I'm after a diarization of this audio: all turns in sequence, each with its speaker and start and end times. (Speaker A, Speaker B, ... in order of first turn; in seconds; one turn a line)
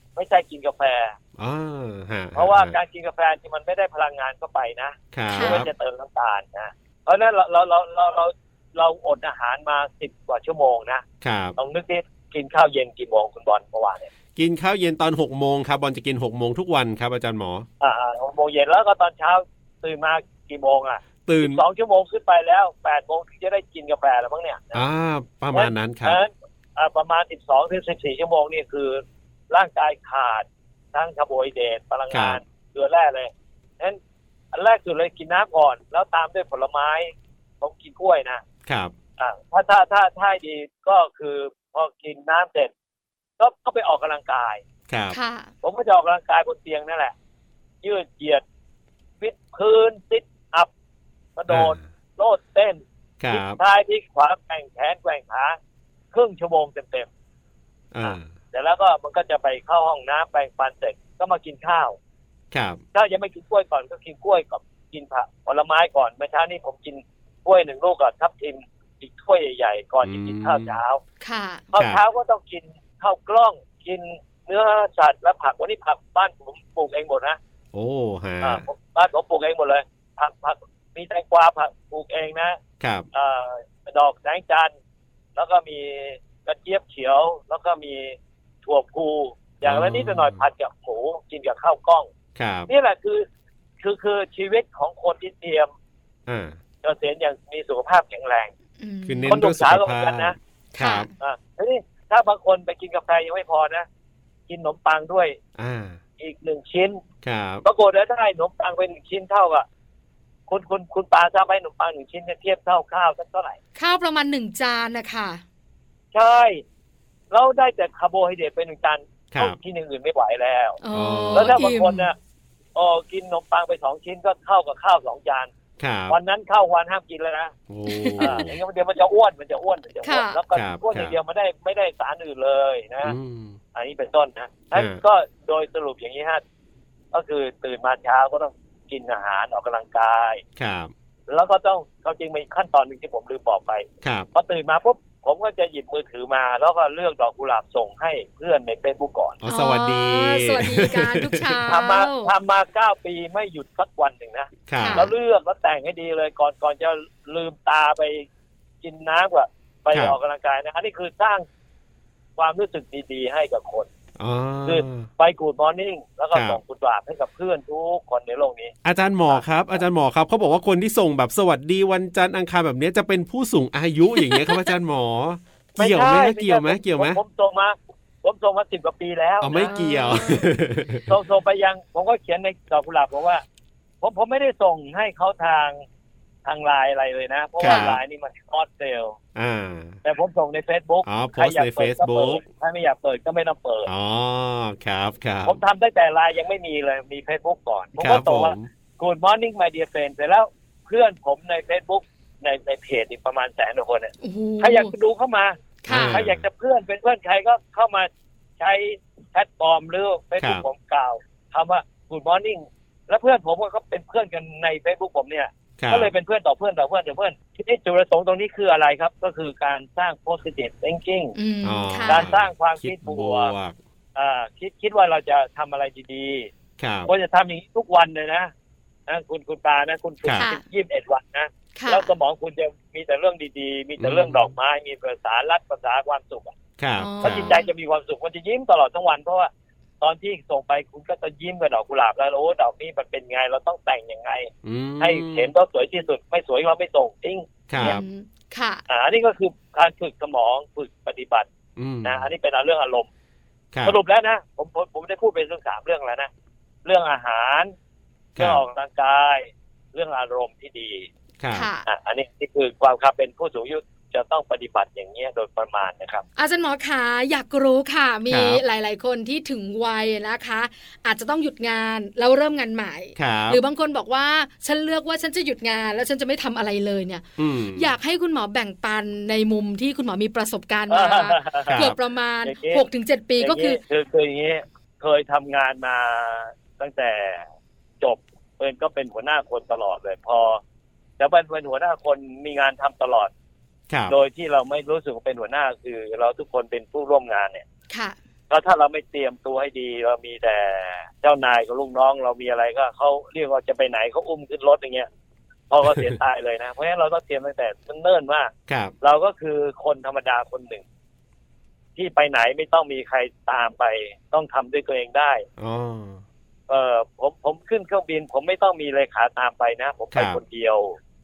Speaker A: 0.2-1.2
Speaker B: 1.4-2.8
Speaker A: 2.4-11.0
Speaker B: 5.1-5.7
Speaker C: 5.3-5.7
Speaker B: 11.2-11.6
Speaker A: 11.6-14.1
Speaker B: 14.4-17.7
Speaker A: 17.8-24.8
Speaker B: 21.3-21.6
Speaker B: 24.7-26.2
Speaker A: 25.5-34.0
Speaker B: 32.1-32.4
Speaker A: 34.5-38.4
Speaker B: 38.7-38.9
Speaker A: 39.2-42.7
Speaker A: 43.4-44.6
Speaker B: 44.9-45.2
Speaker C: 45.1-45.5
Speaker A: 45.6-47.1
Speaker A: 47.8-48.4
Speaker A: 49.2-50.7
Speaker A: 51.4-55.6
Speaker B: 51.5-51.8
Speaker B: 53.2-53.6
Speaker A: 56.1-57.1
Speaker B: 57.9-58.3
Speaker A: 58.0-62.0
Speaker B: 62.5-62.8
Speaker A: 62.9-71.0
Speaker B: 70.0-70.8
Speaker C: 71.2-71.7
Speaker A: 71.7-77.4
Speaker B: 77.7-78.6
Speaker A: 78.4-82.6
Speaker B: 82.8-83.1
Speaker A: 83.1-84.7
Speaker A: 85.4-92.1
Speaker B: 89.6-90.4
Speaker B: 92.4-92.7
Speaker A: 92.7-93.2
Speaker A: 93.8-95.7
Speaker B: 96.3-96.6
Speaker A: 96.8-98.5
Speaker C: 98.8-99.4
Speaker B: 99.1-101.1
Speaker A: 99.3-100.4
Speaker C: 100.8-101.1
Speaker A: 101.2-103.9
Speaker A: 104.5-105.4
Speaker B: 105.6-106.0
Speaker A: 106.2-107.0
Speaker B: 107.2-107.6
Speaker A: 107.6-109.7
Speaker A: 110.5-113.6
Speaker C: 113.8-115.4
Speaker A: 116.1-116.6
Speaker A: 117.3-120.8
Speaker C: 120.8-122.1
Speaker B: 120.9-121.6
Speaker A: 121.3-122.2
Speaker A: 122.8-125.5
Speaker B: 125.8-126.2
Speaker A: 126.1-127.5
Speaker B: 127.7-128.6
Speaker C: 127.9-128.4
Speaker A: 128.2-133.2
Speaker C: 130.0-130.4
Speaker B: 130.5-131.1
Speaker B: 133.0-133.6
Speaker A: 133.7-136.4
Speaker B: 134.7-135.0
Speaker A: 137.1-140.4
Speaker B: 140.6-140.9
Speaker A: 141.3-149.4
Speaker B: 144.0-144.3
Speaker B: 149.4-151.6
Speaker C: 149.5-152.3
Speaker A: 151.7-158.3
Speaker B: 154.7-155.1
Speaker C: 154.8-155.1
Speaker A: 158.8-161.5
Speaker A: 162.4-163.9
Speaker B: 164.2-165.1
Speaker A: 164.7-168.8
Speaker B: 166.3-166.6
Speaker B: 168.8-177.2
Speaker C: 174.2-174.6
Speaker A: 175.8-179.8
Speaker B: 179.4-181.1
Speaker C: 179.6-180.5
Speaker A: 181.1-183.4
Speaker A: 184.0-185.8
Speaker A: 186.4-189.2
Speaker B: 187.6-188.0
Speaker C: 187.7-187.9
Speaker B: 189.3-190.0
Speaker A: 190.0-193.9
Speaker B: 191.1-192.4
Speaker B: 193.9-195.6
Speaker A: 195.4-221.3
Speaker B: 198.0-198.7
Speaker C: 204.2-204.9
Speaker C: 205.8-206.2
Speaker B: 205.9-206.4
Speaker B: 215.8-216.1
Speaker C: 221.4-222.2
Speaker B: 221.6-223.8
Speaker A: 222.1-223.5
Speaker A: 224.2-226.5
Speaker B: 226.8-227.1
Speaker A: 227.1-228.5
Speaker A: 229.1-236.6
Speaker C: 230.4-230.6
Speaker C: 231.8-232.1
Speaker B: 234.0-234.5
Speaker B: 236.8-237.5
Speaker C: 237.0-237.7
Speaker A: 237.2-247.9
Speaker B: 244.6-245.5
Speaker B: 247.7-248.0
Speaker C: 247.8-248.8
Speaker A: 248.9-251.5
Speaker B: 251.8-252.3
Speaker A: 252.0-253.1
Speaker A: 253.8-256.3
Speaker A: 256.9-257.7
Speaker A: 258.4-261.1
Speaker B: 258.4-258.6
Speaker B: 261.4-261.7
Speaker C: 261.5-261.9
Speaker A: 261.9-266.2
Speaker C: 266.4-283.8
Speaker B: 268.3-268.6
Speaker B: 273.2-273.6
Speaker B: 277.4-277.9
Speaker A: 280.9-281.9
Speaker B: 281.7-282.0
Speaker A: 282.4-282.9
Speaker A: 283.4-287.5
Speaker A: 288.0-290.6
Speaker A: 291.2-293.3
Speaker B: 293.9-294.1
Speaker A: 294.1-297.6
Speaker C: 297.9-298.2
Speaker A: 298.5-305.1
Speaker A: 305.7-310.8
Speaker B: 308.7-308.9
Speaker A: 312.0-315.4
Speaker B: 315.6-316.2
Speaker A: 316.7-321.0
Speaker B: 320.1-320.4